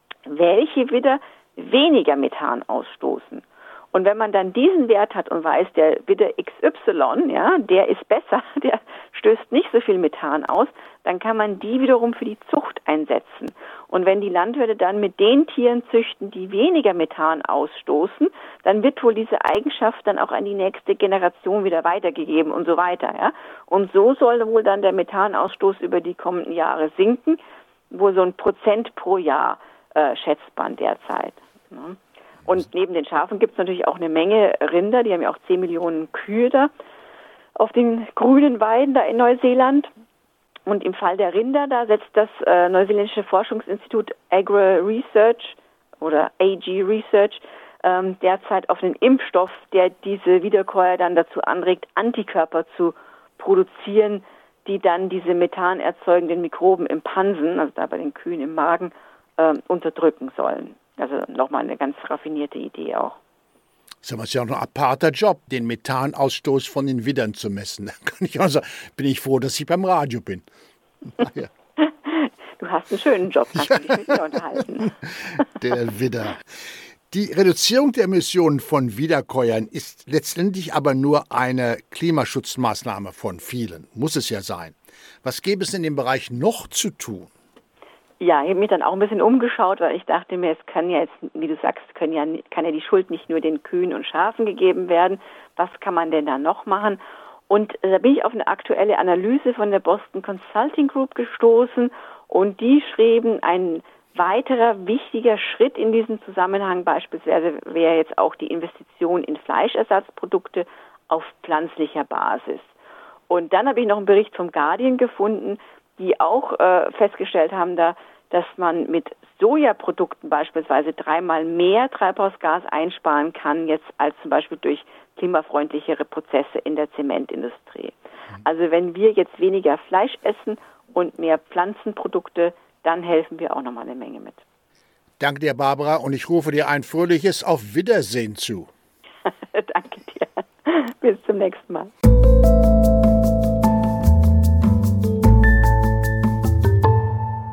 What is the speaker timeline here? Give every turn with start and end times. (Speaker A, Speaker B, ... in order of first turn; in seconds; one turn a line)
Speaker A: 0.2-27.4
Speaker A: 27.9-36.7
Speaker A: 37.6-39.9
Speaker A: 40.6-63.2
Speaker B: 64.0-70.5
Speaker B: 71.2-71.5
Speaker A: 71.8-75.4
Speaker B: 73.7-74.1
Speaker B: 75.1-76.5
Speaker B: 77.1-87.3
Speaker A: 88.2-112.8
Speaker A: 113.3-134.4
Speaker B: 135.2-138.7
Speaker A: 139.3-141.9